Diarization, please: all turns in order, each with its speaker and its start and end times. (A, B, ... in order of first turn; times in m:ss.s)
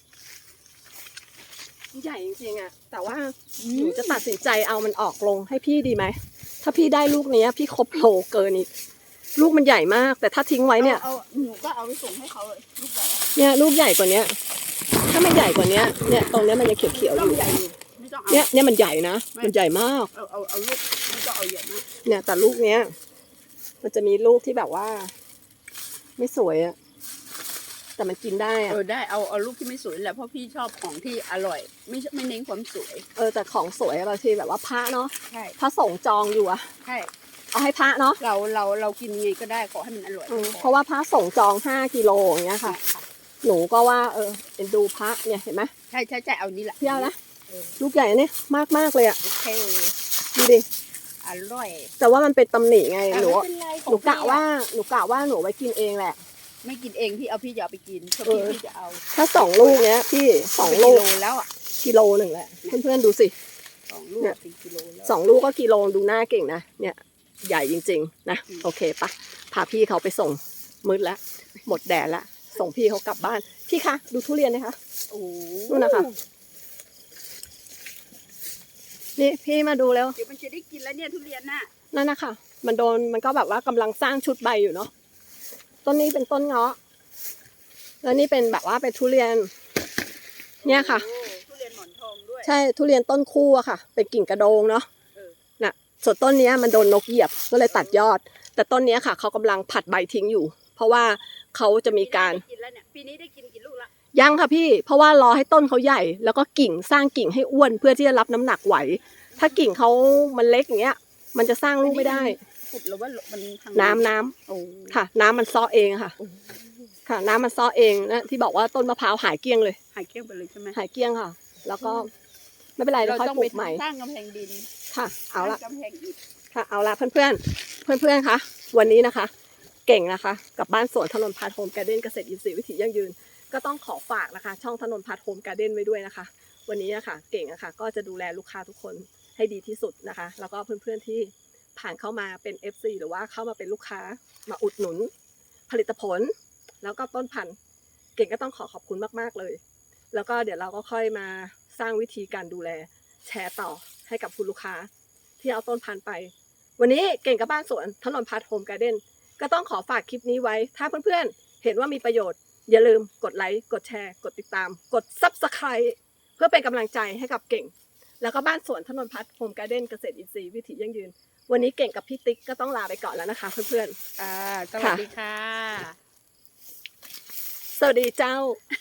0:01.9-0:08.7 A
0:03.6-0:04.2 B
0:09.4-0:11.0 A
0:10.8-0:13.2 B
0:13.4-0:14.3 A
0:15.1-0:17.5 A
0:16.9-0:18.5 B
0:18.3-0:20.1 A
0:20.1-0:21.8 B
0:22.0-0:22.9 A
0:23.8-0:25.1 A
0:26.2-0:26.8 A
0:28.0-0:28.8 A
0:28.7-0:33.0 B
0:33.2-0:36.7 A
0:35.3-0:35.6 B
0:36.8-0:37.1 B
0:37.5-0:38.2 A
0:38.2-0:40.7 B
0:40.3-0:42.8 A
0:42.6-0:43.0 B
0:43.4-0:45.7 A
0:45.9-0:47.7 B
0:46.8-0:47.2 A
0:47.8-0:49.2 A
0:49.2-0:49.9 B
0:50.3-0:50.6 A
0:51.2-0:51.9 B
0:52.0-0:56.2 A
0:53.1-0:54.4 B
0:56.6-0:59.9 B
0:58.2-0:58.6 A
0:59.1-1:01.0 A
1:00.6-1:01.5 B
1:01.8-1:03.3 A
1:03.9-1:05.1 B
1:05.0-1:14.8 A
1:15.1-1:16.2 B
1:15.7-1:16.1 A
1:19.2-1:20.2 A
1:20.2-1:21.7 B
1:21.9-1:24.9 A
1:25.8-1:26.8 A
1:28.0-1:29.5 A
1:30.6-1:32.5 B
1:30.6-1:31.0 A
1:32.4-1:34.9 A
1:35.6-1:42.4 A
1:41.9-1:43.9 B
1:44.1-1:52.4 A
1:51.8-1:55.0 B
1:53.7-1:54.3 A
1:54.9-1:56.2 A
1:56.2-1:56.7 B
1:57.0-1:59.8 A
1:59.9-2:00.8 B
2:00.7-2:02.1 A
2:02.8-2:03.8 A
2:03.0-2:04.7 B
2:04.9-2:05.6 A
2:05.4-2:06.2 B
2:06.5-2:09.3 A
2:09.9-2:25.1 A
2:25.7-2:27.6 A
2:28.2-2:29.6 A
2:30.1-2:34.9 A
2:35.4-2:54.0 A
2:54.2-2:56.0 B
2:54.8-2:55.0 A
2:57.8-2:58.6 A